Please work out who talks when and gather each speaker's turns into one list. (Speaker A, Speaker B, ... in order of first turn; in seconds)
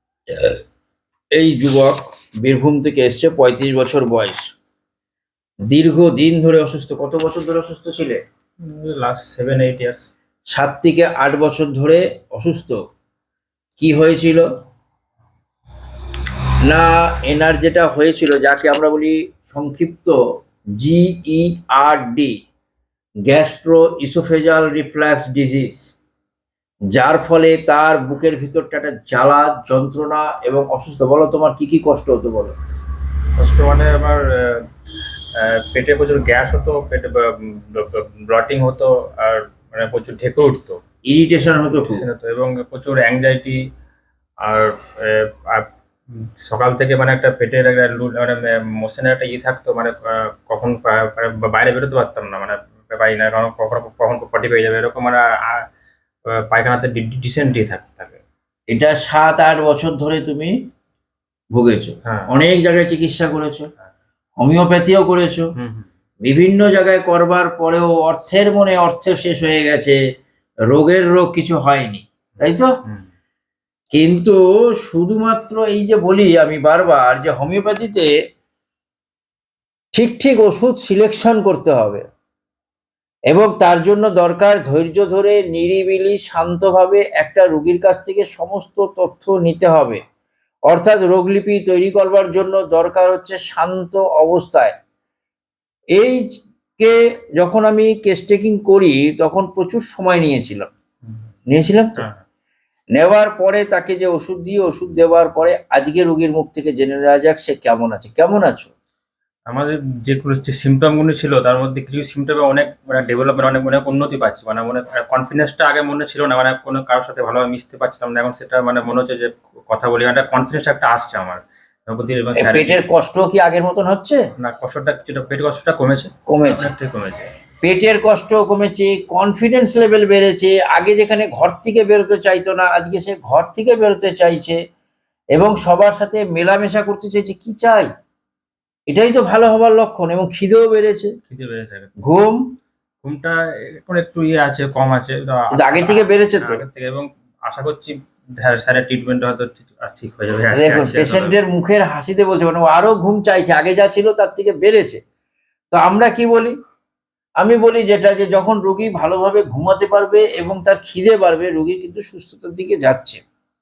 Speaker A: 1.4-4.4, 5.7-8.2, 10.5-12.8, 13.8-14.5, 16.7-20.1, 20.8-22.4, 23.3-25.9, 26.9-32.5, 41.1-42.0, 58.7-60.5, 61.5-63.7, 64.4-65.5, 66.2-70.0, 70.7-72.7, 73.9-78.1, 79.9-82.0, 83.3-90.0, 90.7-94.7, 96.0-96.2, 96.8-100.7, 101.5-102.0, 103.0-108.7, 122.4-124.2, 126.3-126.7, 127.6-134.6, 135.3-137.9, 138.9-141.1, 142.0-142.4, 145.5-146.6, 150.5-155.0, 155.7-156.5, 157.4-163.2
Speaker B: 8.6-10.1, 33.4-34.6, 35.4-40.8, 41.8-43.6, 44.4-45.7, 46.5-55.6, 56.4-58.2, 65.6-65.9, 102.0-102.2, 109.5-122.8, 124.4-127.3, 141.3-142.0, 143.0-151.4